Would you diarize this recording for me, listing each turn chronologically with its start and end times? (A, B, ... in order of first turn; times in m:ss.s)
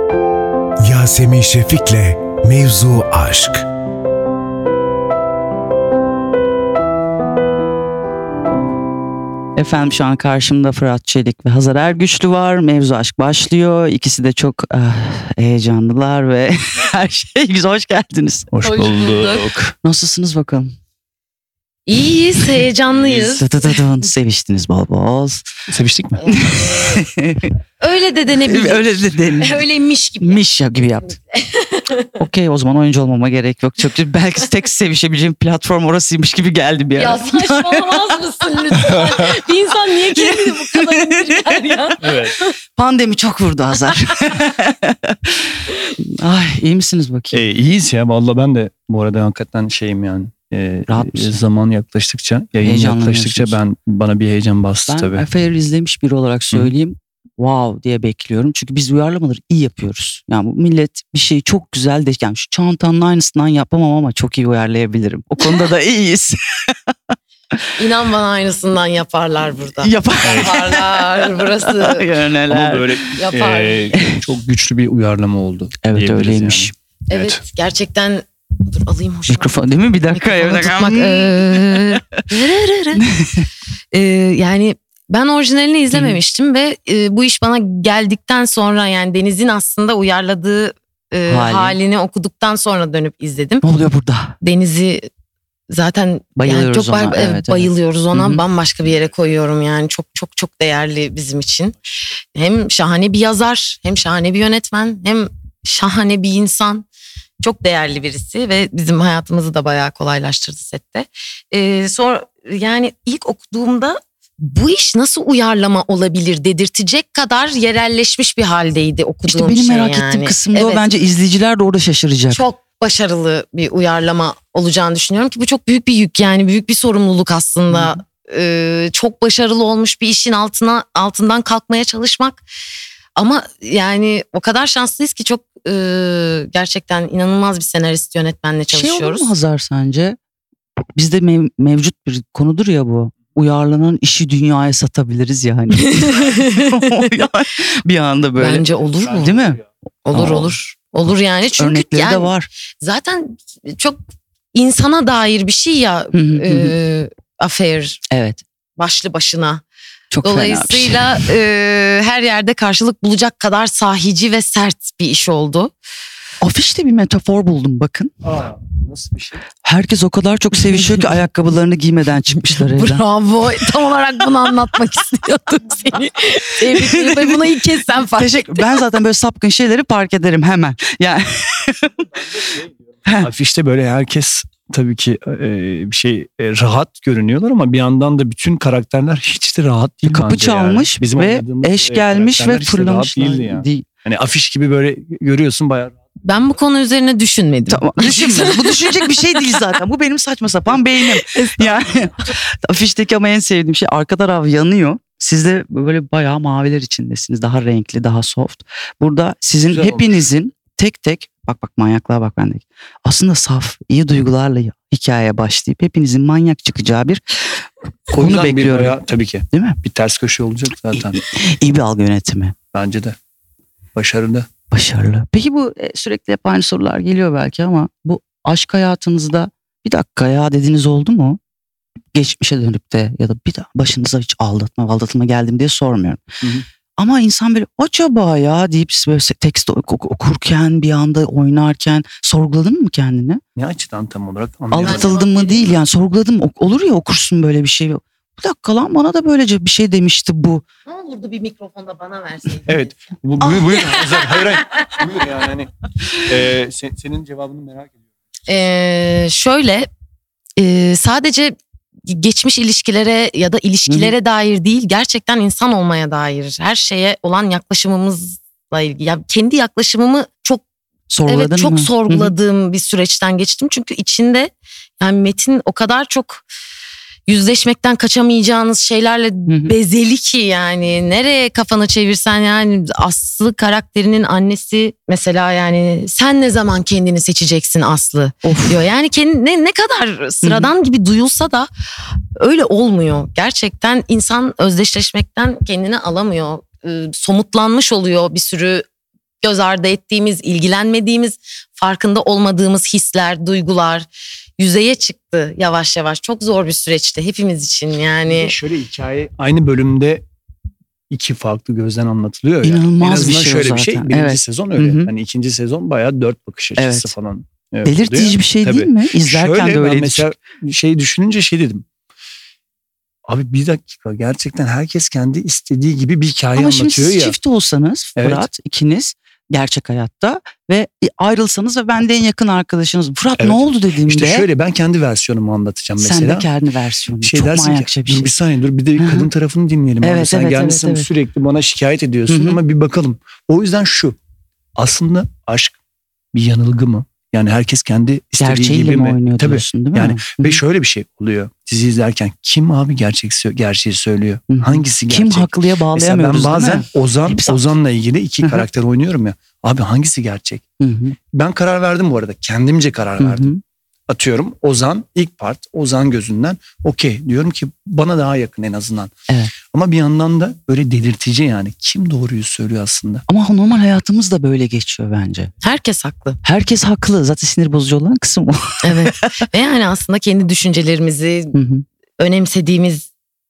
0:00.8-0:03.7 A
0:09.6-0:18.5 B
0:18.5-0:19.7 C
0:18.6-0:19.5 D
0:19.8-0:20.7 B
0:21.8-0:23.8 D
0:22.9-0:23.3 C
0:23.3-0:25.4 B
0:25.7-0:26.4 C
0:26.2-0:27.0 D
0:26.3-0:27.5 B
0:27.8-0:30.4 D
0:28.4-0:29.6 B
0:30.2-0:31.2 B
0:31.3-0:32.2 D
0:32.2-0:38.0 B
0:37.0-0:42.5 D
0:40.2-0:41.6 B
0:42.0-0:42.4 C
0:42.8-0:45.3 B
0:46.0-0:47.4 B
0:47.3-0:55.2 C
0:50.9-0:51.4 B
0:52.6-0:53.6 B
0:54.9-1:07.1 B
1:07.8-1:12.1 D
1:09.8-1:11.0 B
1:10.2-1:10.5 C
1:11.6-1:13.0 B
1:12.5-1:17.4 C
1:13.2-1:13.9 D
1:15.8-1:16.7 B
1:17.1-1:23.0 D
1:19.3-1:22.0 B
1:23.0-1:23.5 B
1:23.9-1:33.6 D
1:25.9-1:26.2 B
1:31.3-1:31.8 B
1:33.6-1:34.4 B
1:34.4-1:35.0 D
1:35.7-1:41.8 D
1:36.4-1:38.4 B
1:42.3-1:46.8 D
1:47.4-2:00.9 D
1:59.2-2:02.4 B
2:02.3-2:12.4 D
2:07.7-2:08.0 B
2:13.2-2:19.3 D
2:18.7-2:20.2 B
2:21.0-2:28.6 B
2:26.0-2:27.0 D
2:28.4-2:29.4 D
2:29.2-2:30.6 B
2:30.0-2:34.0 D
2:31.6-2:32.5 B
2:34.5-2:38.0 D
2:36.1-2:36.7 B
2:38.1-2:38.4 B
2:38.8-2:39.6 D
2:40.1-2:41.3 B
2:40.2-2:45.7 D
2:46.4-2:48.1 B
2:48.2-2:49.5 C
2:49.6-2:53.0 B
2:52.6-2:58.8 D
2:56.8-2:57.4 B
2:58.1-3:02.1 B
3:03.2-3:15.9 C
3:10.0-3:13.8 B
3:16.2-3:19.0 D
3:17.7-3:37.2 B
3:21.2-3:22.1 D
3:29.7-3:30.2 C
3:38.1-3:41.2 C
3:38.1-3:39.8 B
3:40.9-3:42.6 B
3:42.7-3:43.2 C
3:43.9-3:44.5 C
3:44.7-3:51.4 B
3:52.1-3:56.2 B
3:57.0-4:03.4 B
4:03.6-4:05.1 C
4:04.7-4:10.6 B
4:04.8-4:05.8 D
4:10.9-4:14.9 D
4:12.7-4:17.9 C
4:18.5-4:19.9 D
4:20.6-4:21.5 D
4:22.1-4:30.6 D
4:23.9-4:24.1 B
4:31.1-4:32.3 B
4:31.2-4:36.4 D
4:37.3-4:51.7 D
4:39.5-4:39.7 B
4:48.4-4:48.8 B
4:50.4-4:50.7 B
4:52.4-4:58.8 D
4:59.4-5:08.5 D
5:08.2-5:10.2 C
5:11.1-5:21.8 C
5:12.6-5:15.1 B
5:16.8-5:17.1 B
5:17.8-5:20.3 B
5:23.3-5:27.4 C
5:26.5-5:34.5 B
5:28.2-5:28.5 C
5:33.4-5:36.5 C
5:36.0-5:38.3 B
5:37.2-5:44.2 C
5:39.0-5:39.3 B
5:40.0-5:41.1 B
5:42.3-5:42.6 B
5:44.8-5:45.8 C
5:46.3-6:00.6 C
5:48.4-5:50.6 B
5:54.5-5:57.7 B
6:00.8-6:01.2 B
6:01.3-6:03.5 C
6:03.2-6:03.6 B
6:04.1-6:09.1 C
6:09.3-6:09.5 B
6:09.7-6:13.2 C
6:13.3-6:15.5 B
6:15.6-6:16.4 D
6:16.4-6:19.5 B
6:18.8-6:21.5 D
6:21.5-6:21.8 B
6:22.2-6:23.1 D